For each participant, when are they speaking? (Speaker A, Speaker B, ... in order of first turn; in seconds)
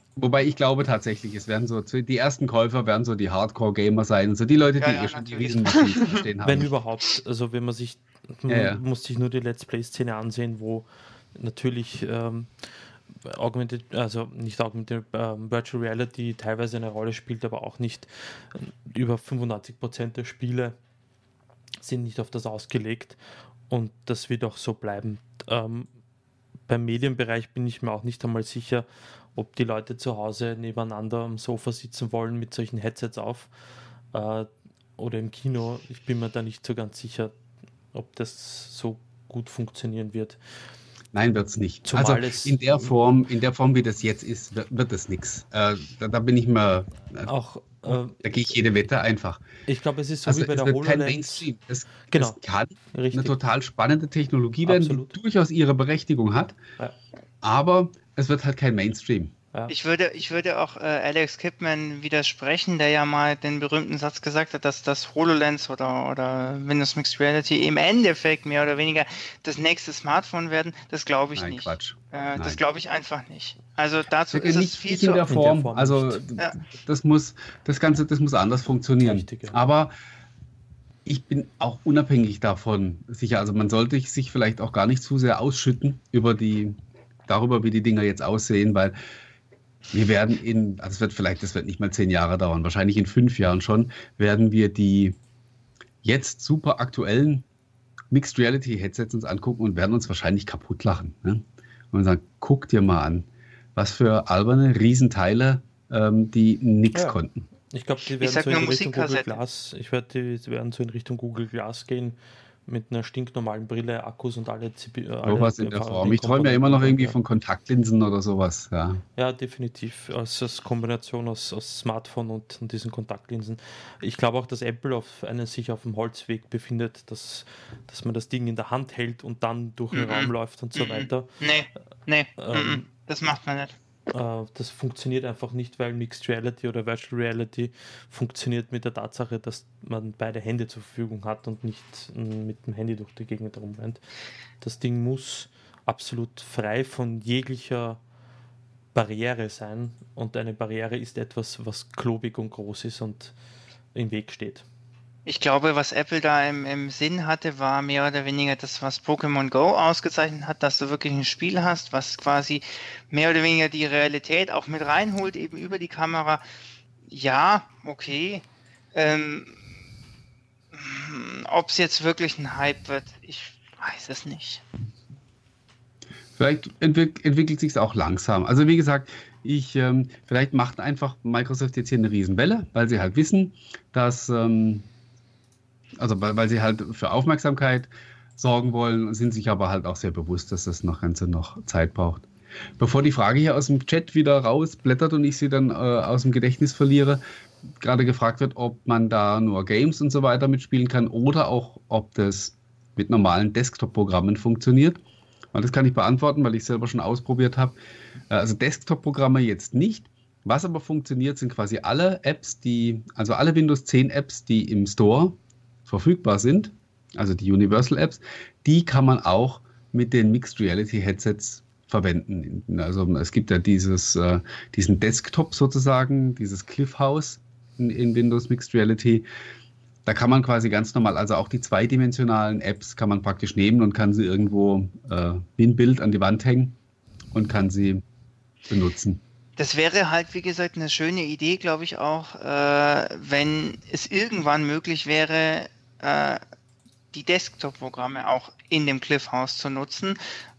Speaker A: 0.2-6.7, 8.5-8.8, 41.1-47.3, 47.9-49.4, 50.3-56.6, 57.4-59.3, 71.4-72.6, 74.3-79.9, 81.0-88.9, 89.9-95.2, 96.0-97.5, 98.1-107.4, 115.2-119.0, 176.4-184.9, 186.0-192.3, 192.8-197.2, 197.8-205.0, 205.5-207.8, 208.3-229.2, 230.1-236.8, 237.3-238.0, 238.7-239.2
Speaker B: 4.8-6.3, 59.7-75.3, 108.2-109.4, 129.9-133.7, 155.3-166.4, 167.1-169.6, 170.7-174.6, 239.6-246.4, 247.1-250.2
Speaker C: 6.4-12.7, 13.2-20.8, 21.8-25.9, 26.7-33.5, 34.1-37.4, 37.9-40.4, 41.9-42.9, 47.3-48.2, 49.7-51.5, 52.1-52.4, 52.9-53.4, 54.6-55.2, 75.3-76.2, 79.0-79.6, 106.9-117.2, 119.2-131.3, 132.4-132.9, 134.1-144.0, 144.6-148.0, 148.9-153.3, 153.9-154.7